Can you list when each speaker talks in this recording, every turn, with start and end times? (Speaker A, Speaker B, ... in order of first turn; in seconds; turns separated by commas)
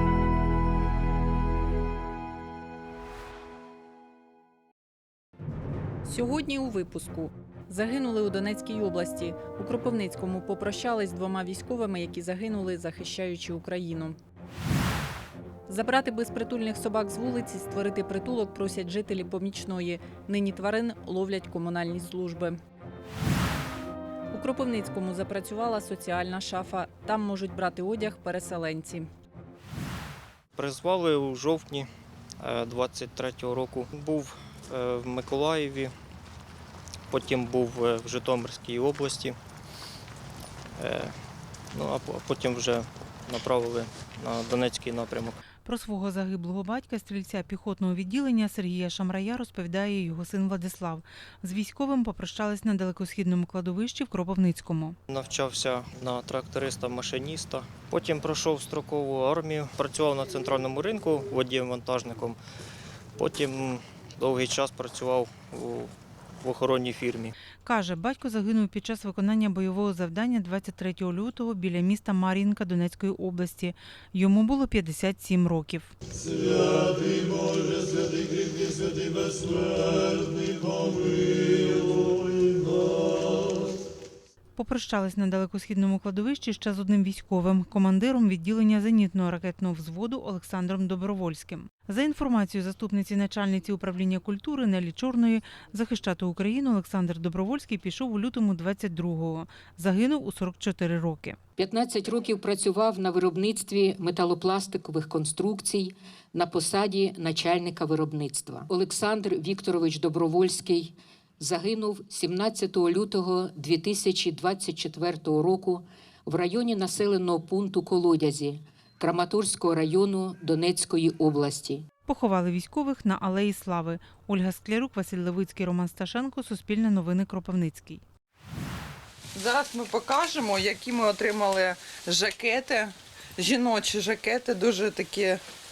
Speaker A: 6.0-14.2, Speaker A: 15.7-22.6, Speaker A: 24.3-29.1, Speaker B: 30.5-35.9, Speaker B: 37.1-39.4, Speaker B: 40.8-41.1, Speaker B: 41.7-45.4, Speaker C: 45.6-55.0, Speaker B: 55.1-62.4, Speaker B: 63.2-67.3, Speaker C: 67.6-75.9, Speaker C: 84.6-101.4, Speaker D: 101.6-121.8, Speaker C: 122.1-128.0, Speaker E: 129.3-135.4